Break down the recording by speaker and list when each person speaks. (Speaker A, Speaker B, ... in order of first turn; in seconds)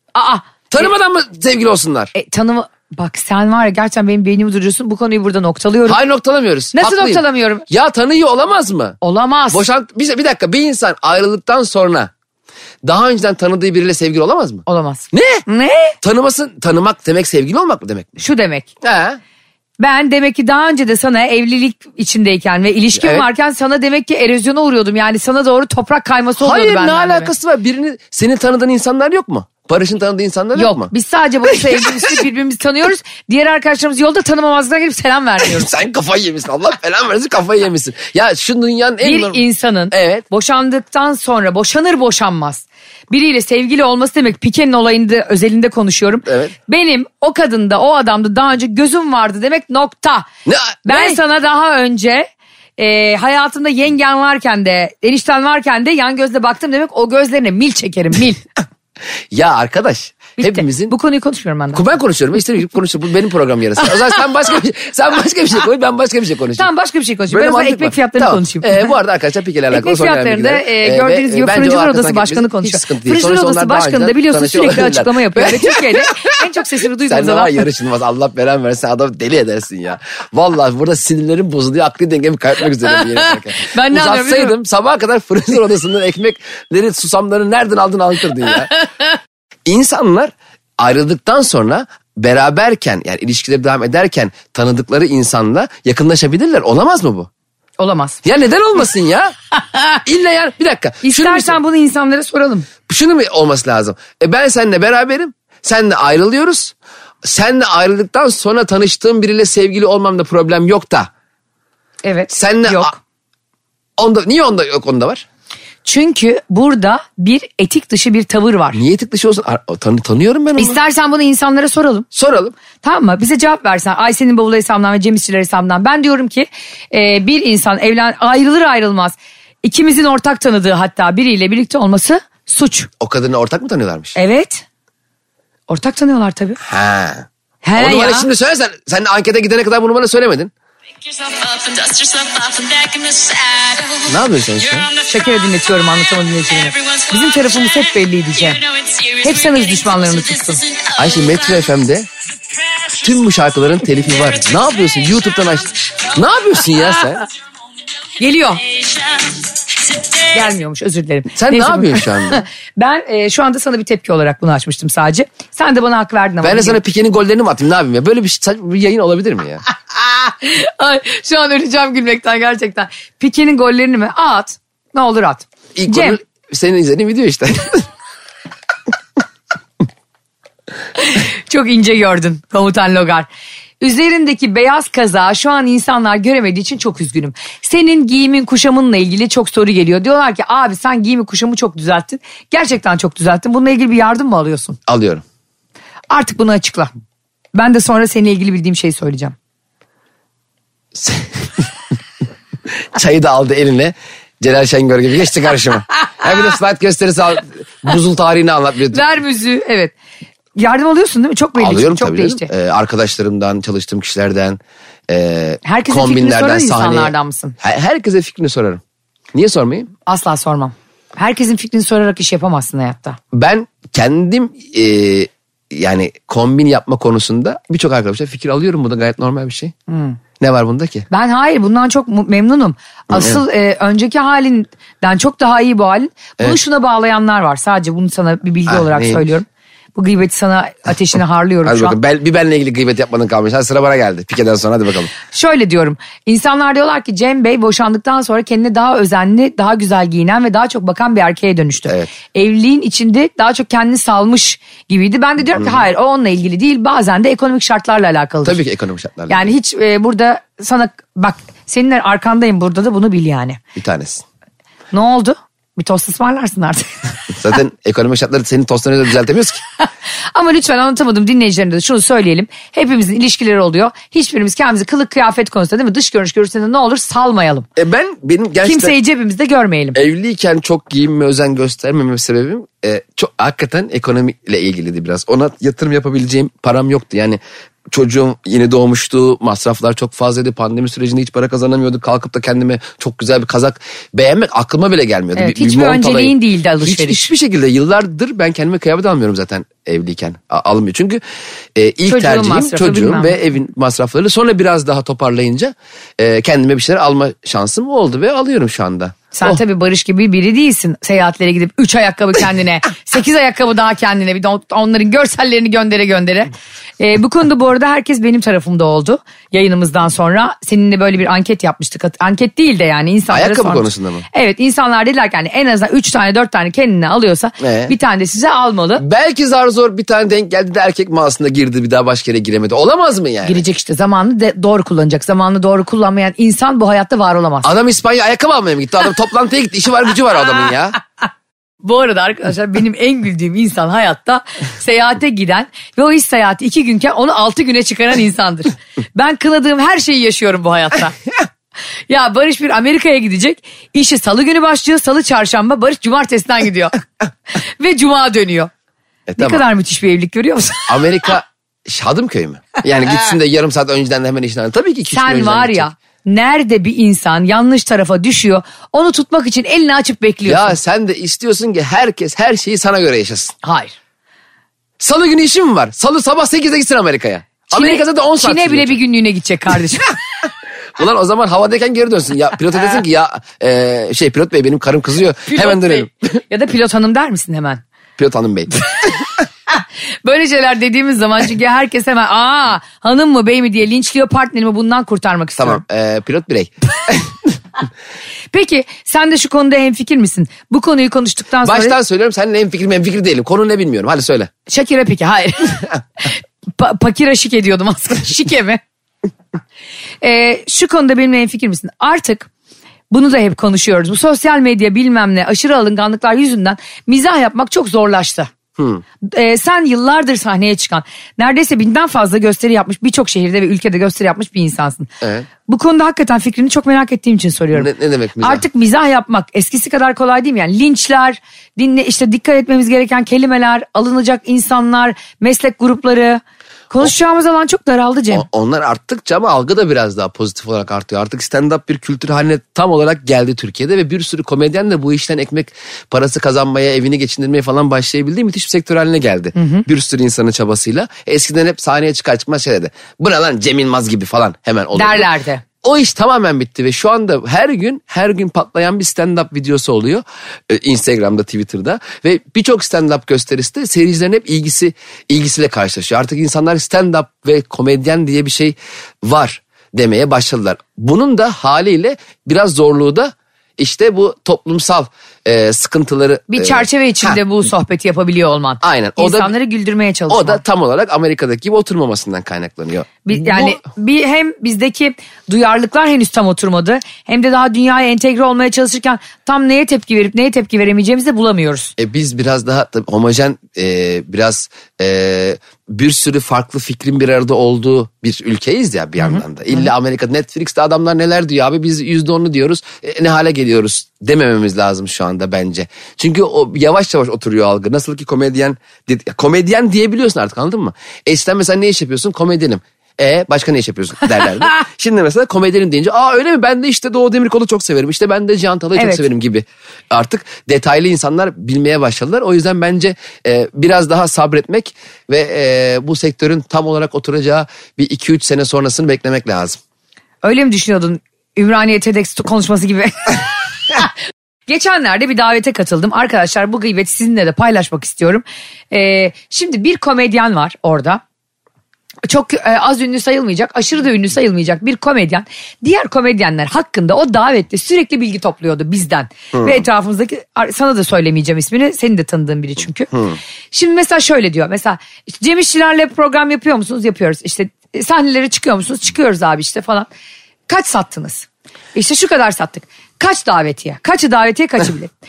Speaker A: 0.1-0.9, 2.1-6.0, 6.7-7.7, 9.0-9.6, 14.7-15.9, 18.2-18.7, 19.8-27.3, 30.5-35.7, 39.0-50.2, 50.9-58.4, 60.4-61.8, 66.5-68.9, 69.7-77.6, 82.9-84.5, 97.8-98.2, 99.6-100.0, 101.0-102.7, 112.0-113.0, 115.8-118.8, 120.6-122.1, 122.8-132.9, 134.1-134.6, 135.7-136.6, 137.6-138.3, 145.0-148.6, 149.2-150.6, 158.2-158.6, 160.3-166.8, 170.0-176.2, 181.0-183.3, 183.8-194.8, 196.1-196.9, 197.5-199.3, 208.9-209.9, 210.6-212.5, 215.6-217.6, 220.1-223.2, 229.9-230.2, 231.1-242.0, 245.2-258.6, 259.3-263.6, 264.9-267.1, 270.3-277.7, 278.6-280.0, 295.3-297.2, 302.1-303.4, 309.3-329.0, 333.4-337.7, 341.8-351.1, 352.1-357.0, 357.5-358.7, 359.4-360.9, 365.1-370.8, 373.6-373.9, 377.7-380.1, 385.5-387.8, 389.7-395.8, 398.5-401.9, 404.7-408.8, 410.2-412.5, 413.1-418.5, 419.2-425.1, 425.6-427.9, 428.4-438.4, 449.5-449.9, 454.9-455.6, 476.5-480.6, 483.2-491.9, 519.0-519.2, 530.4-533.4, 534.7-541.2, 542.2-553.1, 553.7-560.1, 560.7-565.1
Speaker B: 0.7-2.1, 5.8-9.0, 9.5-12.1, 12.8-15.4, 16.0-18.2, 18.8-19.2, 22.9-23.2, 26.4-30.9, 31.5-32.1, 35.4-40.2, 46.2-46.5, 50.5-51.2, 59.3-60.9, 61.7-66.7, 67.3-76.3, 77.1-88.7, 89.7-97.3, 98.2-99.3, 100.0-101.6, 102.9-111.1, 112.3-112.9, 114.0-115.2, 118.7-120.8, 122.1-122.5, 133.0-134.2, 136.6-140.5, 144.1-144.9, 150.9-152.1, 153.0-157.2, 161.3-162.4, 166.4-169.6, 175.8-177.8, 194.9-195.2, 200.9-201.7, 202.9-209.0, 211.6-218.8, 219.3-219.9, 223.3-229.7, 230.4-231.1, 233.1-233.4, 238.7-239.3, 241.6-245.1, 255.6-255.8, 258.4-259.5, 263.8-264.2, 267.3-269.6, 277.8-278.9, 279.9-301.2, 301.7-309.6, 323.3-324.2, 327.6-327.9, 329.0-333.6, 337.6-341.0, 359.3-359.6, 360.9-365.9, 370.4-373.5, 375.0-379.0, 381.0-386.1, 388.2-389.1, 395.6-397.5, 401.6-404.5, 418.8-419.0, 425.2-425.5, 427.7-428.6, 438.3-455.3, 455.8-477.4, 478.8-479.5, 480.3-483.8, 492.0-529.8, 549.5-549.8, 553.1-553.4
Speaker C: 141.0-145.2, 146.5-151.7, 154.2-154.9, 158.5-160.4